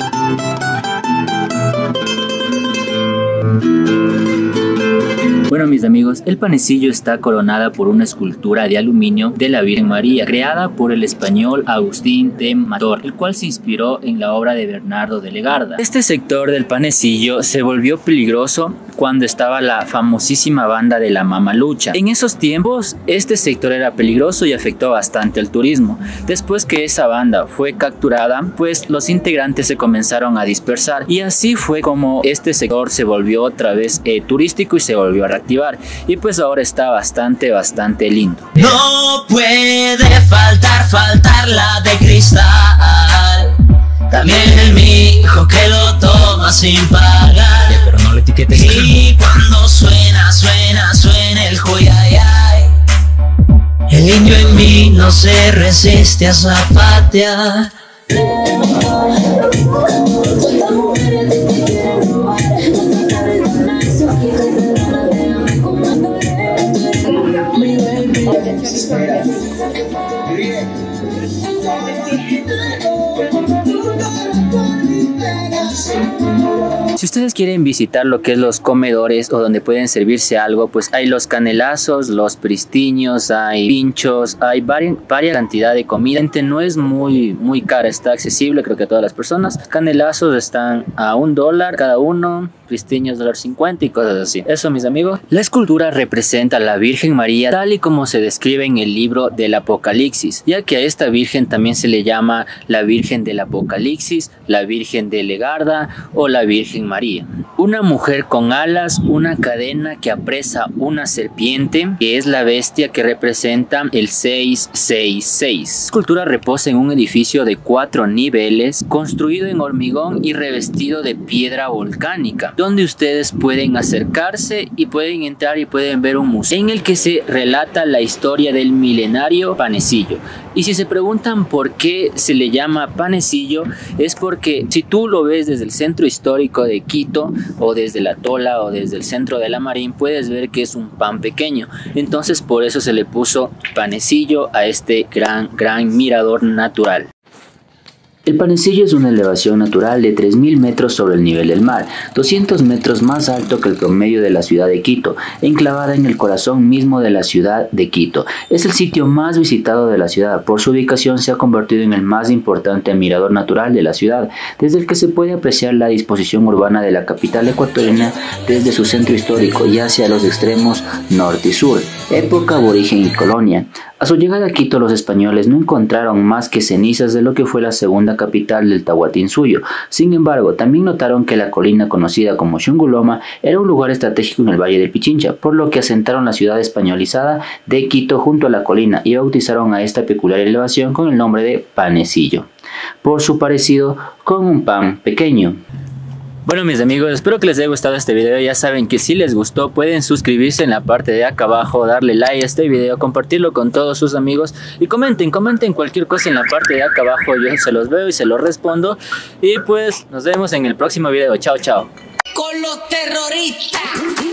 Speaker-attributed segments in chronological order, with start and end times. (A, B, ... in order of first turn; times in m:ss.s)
0:05.5-0:38.8 A
0:38.7-0:43.6 B
0:44.1-0:47.9 B
0:47.7-0:48.8 A
0:48.5-0:52.7 B
0:53.9-1:00.3 B
1:00.4-1:07.1 A
1:07.2-1:07.6 B
1:07.7-1:08.4 A
1:12.1-1:12.4 B
1:15.2-1:15.8 B
1:16.8-2:27.1 A
2:28.2-3:12.5 A
3:13.0-3:15.6 A
3:16.4-3:31.9 A
3:32.3-3:34.0 B